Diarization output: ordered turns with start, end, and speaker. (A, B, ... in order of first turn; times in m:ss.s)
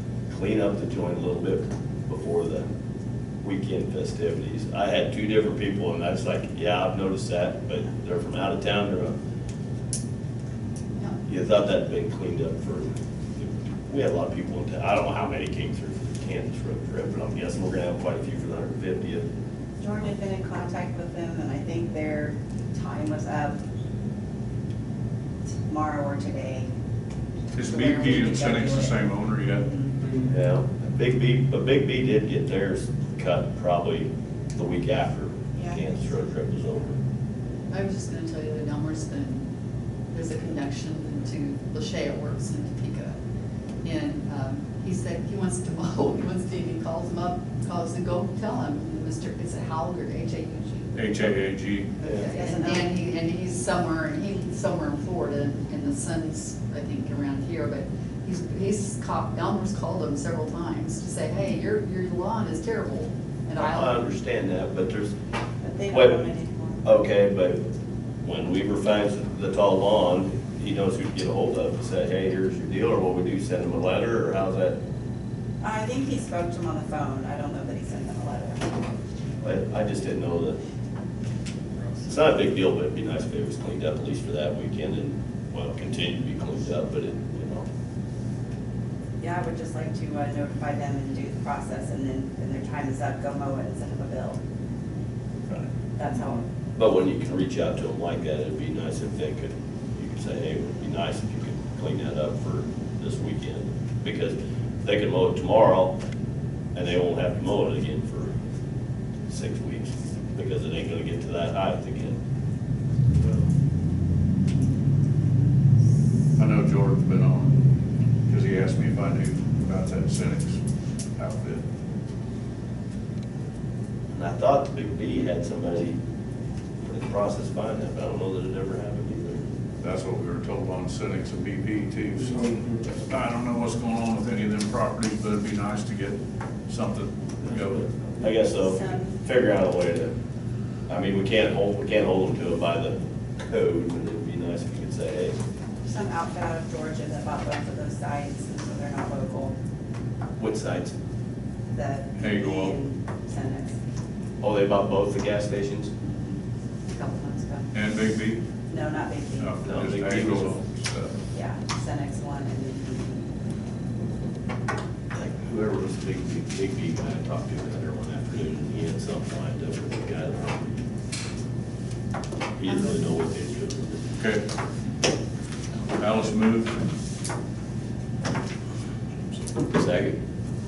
0:00.3-0:02.6 A
0:03.4-0:09.1 A
0:11.2-0:19.2 A
0:19.8-0:23.6 B
0:25.7-0:26.7 B
0:27.5-0:29.7 C
0:27.6-0:29.0 B
0:29.6-0:29.9 B
0:30.3-0:37.0 A
0:37.7-0:39.4 D
0:40.1-0:43.2 D
0:43.8-0:51.2 D
0:50.9-0:51.9 C
0:52.0-1:04.0 D
0:52.0-0:52.3 A
0:52.2-0:52.9 B
1:03.6-1:05.2 A
1:05.6-1:06.9 B
1:05.9-1:06.2 A
1:06.8-1:07.6 A
1:08.2-1:14.8 A
1:15.6-1:18.8 B
1:19.4-1:20.6 A
1:22.0-1:27.7 A
1:29.2-1:34.4 B
1:36.0-1:36.5 B
1:36.8-1:46.0 A
1:46.8-1:48.4 A
1:49.3-1:52.2 A
1:56.4-1:57.6 C
1:58.3-2:00.6 C
2:01.2-2:01.6 C
2:04.1-2:06.0 A
2:06.8-2:09.5 A
2:09.8-2:18.0 C
2:18.2-2:20.1 A
2:18.6-2:19.1 B
2:20.9-2:25.4 A
2:25.8-2:29.6 B
2:30.4-2:30.9 A
2:31.7-2:33.8 B
2:32.2-2:32.8 C
2:34.4-2:35.9 A
2:36.9-2:37.4 D
2:37.3-2:37.6 B
2:37.7-2:38.4 C
2:38.7-2:39.6 B
2:39.4-2:41.2 C
2:39.6-2:40.6 A
2:41.3-2:43.3 B
2:45.1-2:50.8 A
2:52.6-2:54.0 A
2:54.2-2:54.4 C
2:55.8-2:56.9 C
2:59.1-2:59.5 C
2:59.7-3:00.2 A